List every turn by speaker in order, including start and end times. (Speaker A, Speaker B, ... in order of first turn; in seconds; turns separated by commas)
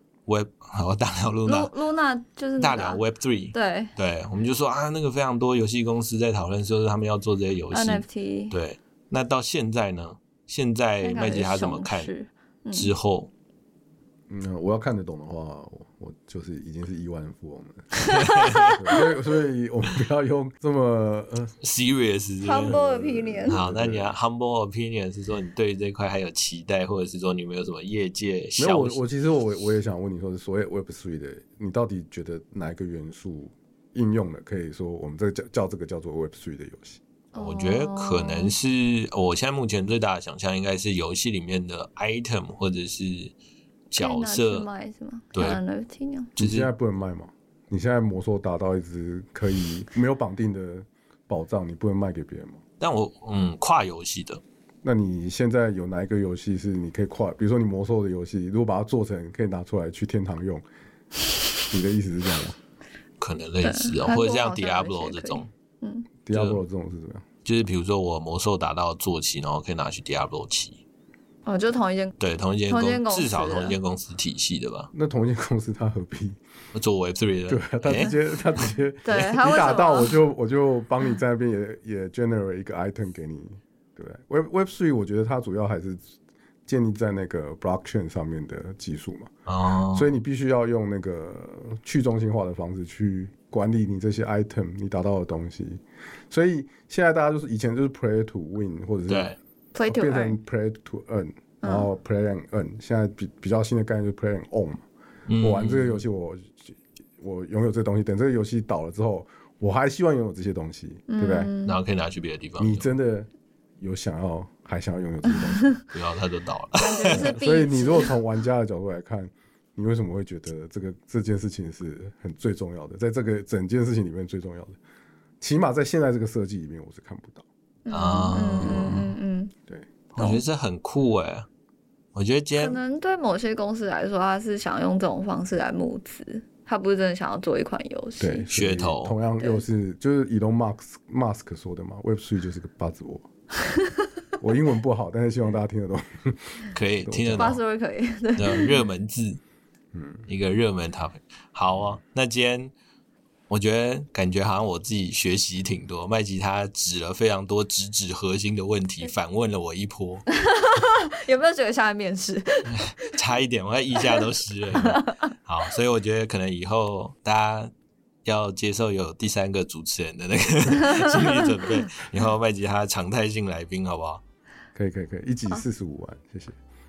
Speaker A: 0.3-1.7, Speaker B: 1.4-3.0, Speaker A: 2.6-12.1, Speaker B: 3.5-3.9, Speaker B: 7.7-8.5, Speaker B: 11.0-12.9, Speaker A: 12.7-13.3, Speaker C: 14.3-18.0, Speaker A: 18.0-18.8, Speaker B: 18.1-18.8, Speaker C: 18.7-21.5, Speaker A: 21.6-22.8, Speaker B: 22.4-23.6, Speaker C: 22.6-24.1, Speaker A: 23.5-29.0, Speaker C: 28.6-37.0, Speaker B: 37.3-38.5, Speaker A: 37.4-43.3, Speaker A: 43.9-44.7, Speaker B: 44.0-46.3, Speaker A: 45.3-45.6, Speaker A: 46.4-46.7, Speaker C: 46.4-52.6, Speaker A: 52.8-54.4, Speaker C: 54.8-60.6, Speaker C: 61.7-62.6, Speaker A: 63.2-65.5, Speaker B: 63.6-66.1, Speaker C: 66.2-67.2, Speaker A: 66.3-66.6, Speaker A: 67.4-70.8, Speaker B: 71.5-72.1, Speaker A: 72.2-74.9, Speaker B: 72.7-73.8, Speaker C: 74.9-76.4, Speaker A: 76.7-79.6, Speaker C: 77.5-86.1, Speaker B: 79.0-80.2, Speaker C: 86.7-89.3, Speaker A: 89.5-90.1, Speaker C: 89.9-104.8, Speaker A: 99.1-99.4, Speaker B: 99.7-100.4, Speaker B: 101.6-101.9, Speaker A: 105.3-106.0, Speaker C: 105.4-111.5, Speaker B: 111.1-111.8, Speaker A: 111.6-112.9, Speaker C: 112.6-113.3, Speaker C: 113.8-115.7, Speaker B: 115.6-115.8, Speaker A: 115.9-117.3, Speaker B: 116.8-118.1, Speaker C: 117.0-124.8, Speaker C: 125.4-127.4, Speaker B: 127.8-129.5, Speaker A: 127.9-129.1, Speaker C: 128.6-129.0, Speaker A: 130.1-131.5, Speaker B: 130.2-130.4, Speaker A: 132.1-132.8, Speaker B: 132.5-138.5, Speaker C: 138.2-143.3, Speaker A: 138.5-139.2, Speaker C: 144.4-147.6, Speaker A: 146.7-147.6, Speaker B: 147.4-148.8, Speaker A: 148.3-149.4, Speaker C: 149.9-150.3, Speaker A: 150.3-152.7, Speaker A: 153.5-160.2, Speaker B: 160.3-163.2, Speaker A: 162.7-167.7, Speaker B: 164.0-165.3, Speaker A: 168.2-174.2, Speaker B: 170.7-171.8, Speaker C: 174.7-176.6